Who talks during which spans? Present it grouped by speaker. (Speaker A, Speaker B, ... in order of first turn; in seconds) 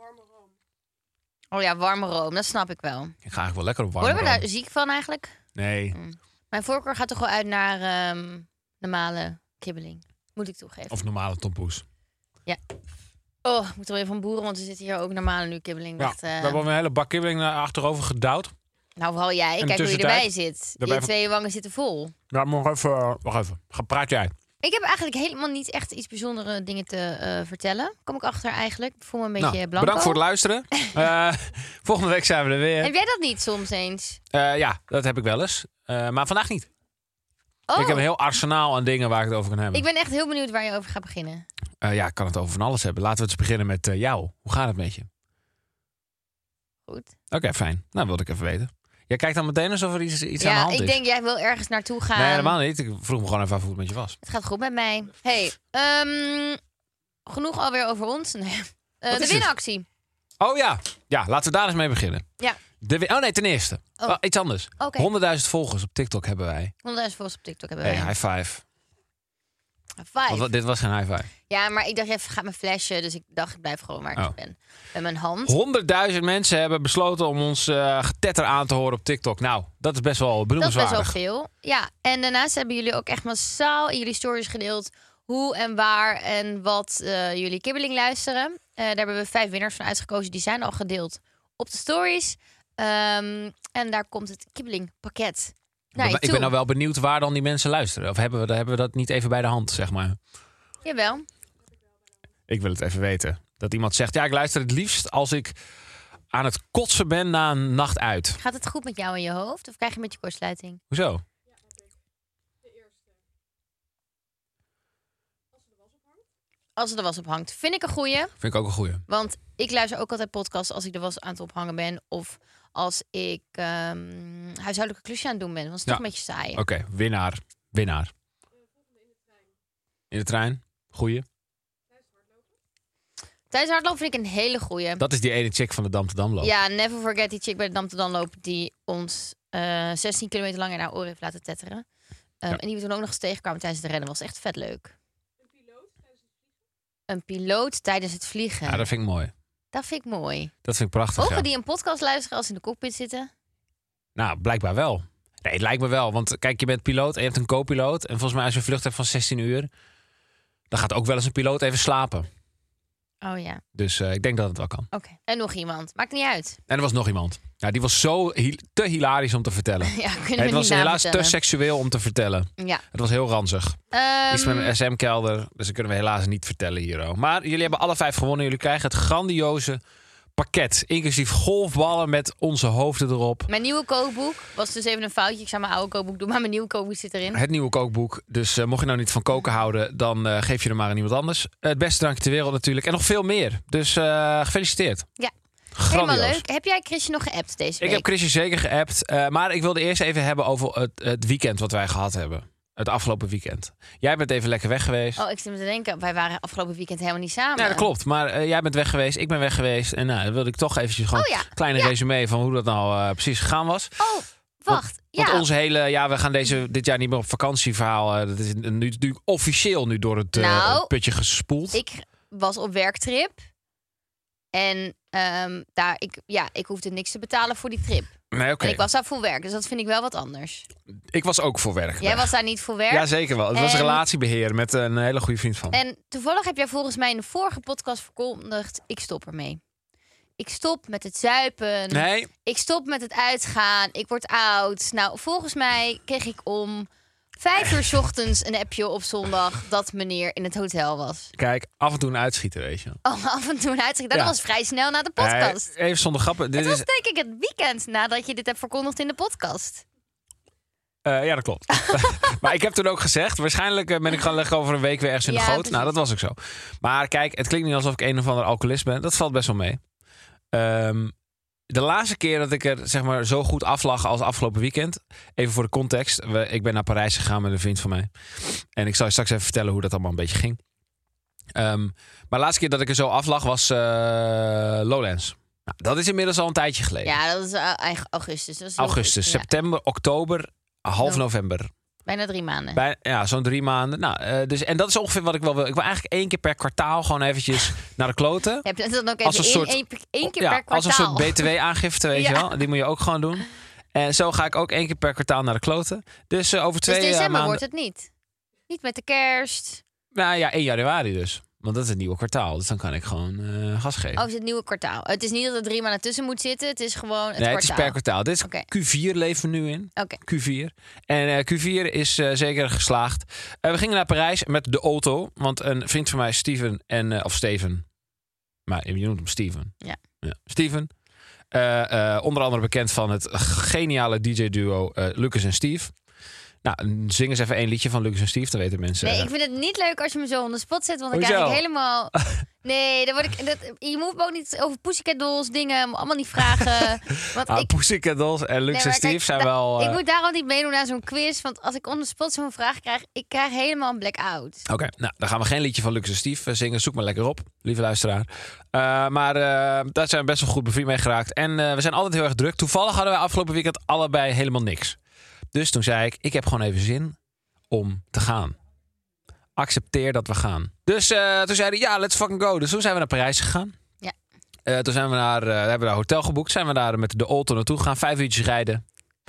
Speaker A: 1.5-3.1, 4.0-5.3, 5.9-11.0, 13.4-16.6, 19.0-22.1, 24.6-30.2, 32.8-34.2, 37.7-38.0, 39.7-41.5, 46.9-47.1, 50.4-52.5, 54.2-56.6, 57.2-59.9, 64.8-65.1, 66.8-68.1, 70.0-70.5, 71.5-75.5, 80.6-96.5, 100.8-101.2, 108.4-110.8, 116.8-118.3, 119.1-126.6, 133.5-135.0, 136.4-141.8, 142.4-144.9, 147.1-148.9, 149.7-150.5, 151.2-153.3, 163.2-163.6, 164.9-166.6, 169.8-171.3, 172.6-172.8, 173.9-174.7, 183.5-187.4, 195.9-198.1, 205.2-207.9, 211.1-211.9, 214.0-215.4, 220.3-220.9, 221.7-223.4, 224.5-230.7, 232.0-234.0, 235.7-239.6, 240.4-251.3, 253.0-255.7, 256.5-259.8, 265.2-265.9, 287.0-289.5, 292.0-292.8, 298.6-301.5, 302.1-302.5, 306.9-308.1, 308.7-309.8, 314.1-318.7, 339.0-347.7, 348.7-354.6
Speaker B: 3.2-4.4, 5.5-6.0, 10.9-11.8, 16.0-18.5, 19.6-21.1, 22.3-24.3, 29.4-32.9, 34.3-36.7, 37.8-39.8, 41.8-45.1, 47.3-51.0, 52.1-54.2, 59.1-59.5, 60.4-62.2, 62.8-66.7, 67.8-68.6, 70.3-71.3, 75.4-81.2, 95.9-100.2, 102.5-105.5, 106.3-108.4, 110.9-111.2, 118.4-119.0, 126.5-128.1, 130.1-131.2, 135.0-136.5, 148.7-149.3, 150.6-151.5, 154.2-159.7, 160.7-162.3, 163.7-164.9, 166.7-173.8, 174.3-179.8, 180.3-183.5, 187.3-195.1, 195.8-196.4, 197.8-205.2, 207.6-214.0, 214.7-221.8, 228.3-228.8, 231.1-232.3, 232.9-235.8, 241.9-242.3, 251.4-253.0, 255.2-256.9, 261.0-269.8, 270.5-271.1, 271.7-280.6, 281.5-287.1, 288.8-291.7, 292.7-298.6, 299.2-307.6, 310.1-314.2, 317.4-327.9, 328.7-330.9, 331.5-335.9, 336.6-339.3, 341.1-341.6, 346.6-350.0, 354.7-365.0, 365.5-367.2, 367.7-368.6, 369.6-373.7, 374.6-378.8